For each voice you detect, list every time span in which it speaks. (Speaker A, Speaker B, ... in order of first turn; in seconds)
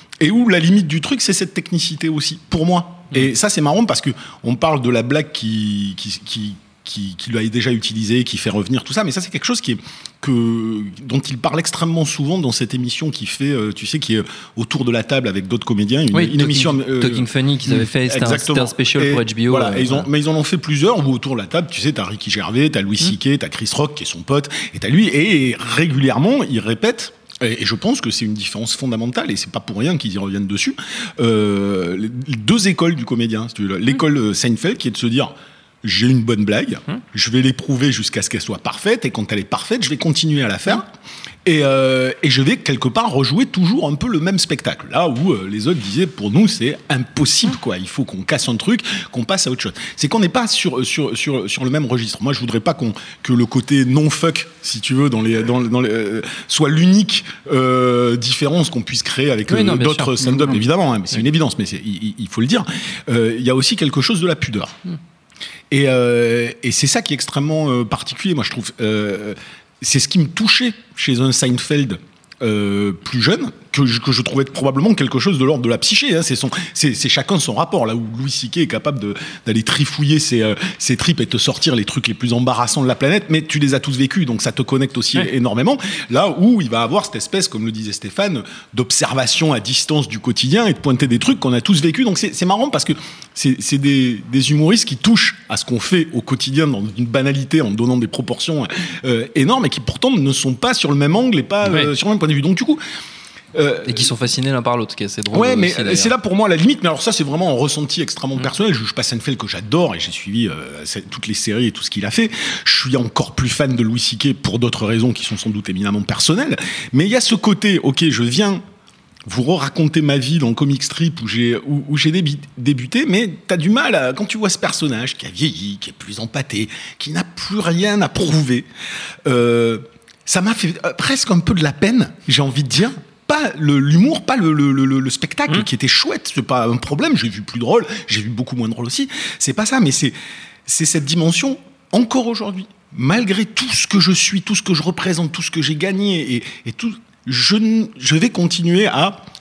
Speaker A: 0.2-40.9, 41.4-64.8, 65.7-102.8, 103.5-104.1, 105.3-118.6, 119.3-128.7, 129.2-140.1, 140.7-149.2
Speaker B: 16.1-20.1, 59.5-61.2, 103.8-106.1